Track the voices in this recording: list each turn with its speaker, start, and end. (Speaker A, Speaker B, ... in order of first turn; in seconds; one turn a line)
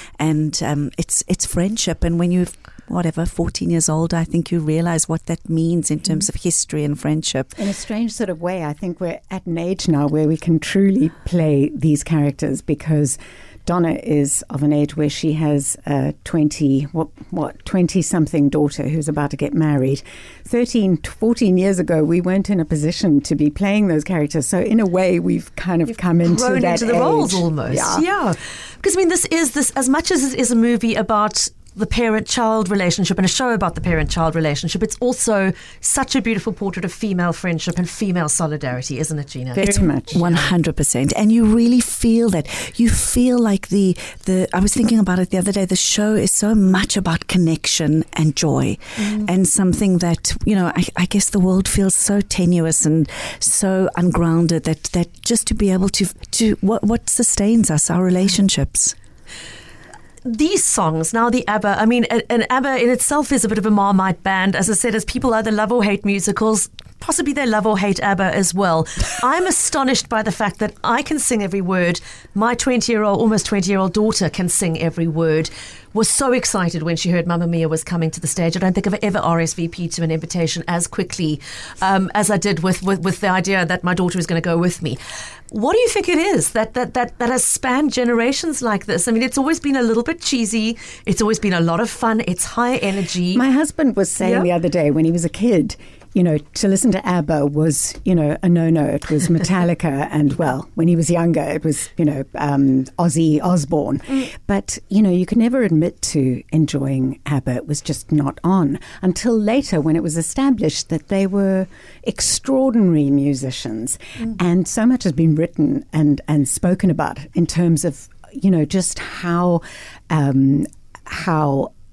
Speaker A: 0.2-7.6
Speaker B: 7.6-28.0
Speaker C: 26.2-40.5
Speaker B: 39.5-40.2
Speaker A: 40.1-58.9
Speaker C: 60.2-85.0
Speaker C: 85.5-93.4
Speaker B: 93.3-121.7
Speaker C: 94.2-94.5